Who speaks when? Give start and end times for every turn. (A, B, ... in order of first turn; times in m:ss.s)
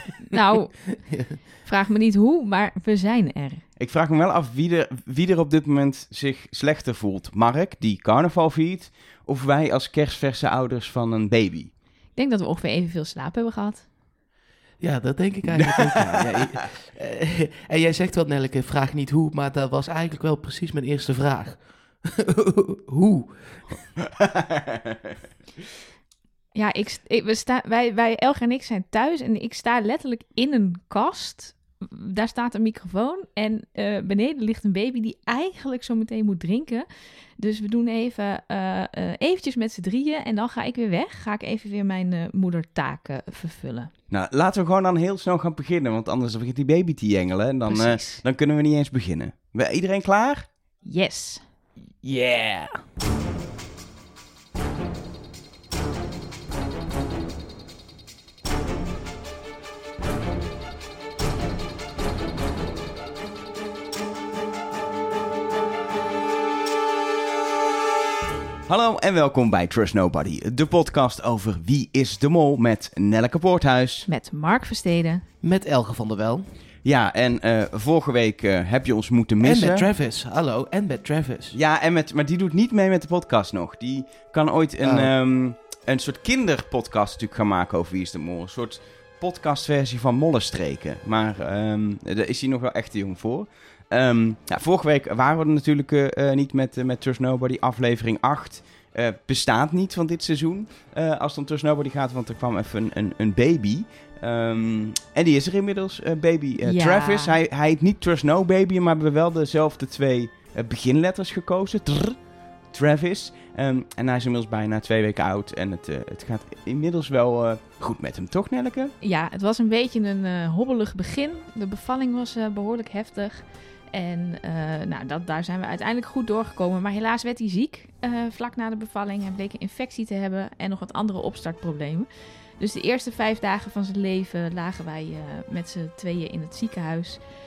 0:00.3-0:01.0 A
0:01.1-0:01.4 B
0:01.6-0:03.6 A
0:03.8-0:11.7 C
0:12.2-0:13.8 A
0:14.8-0:23.6 B
0:15.6-0:16.4 C
0:24.0-0:25.1 C
0:26.5-0:36.9 A
0:37.4-0:43.9 A
0:44.1-0:50.5 C
0:47.7-0:48.2 A
0:50.8-0:51.4 A
0:52.0-0:52.7 B
1:08.7-1:14.1 C
1:14.1-1:15.2 A
1:15.4-1:16.4 B
1:16.8-1:19.9 C
1:19.4-1:21.6 B
1:21.5-1:52.2 C
1:24.8-1:25.1 B
1:46.6-1:47.4 A
1:52.7-1:58.9 C
1:59.0-2:12.1 A
2:12.6-2:17.2 A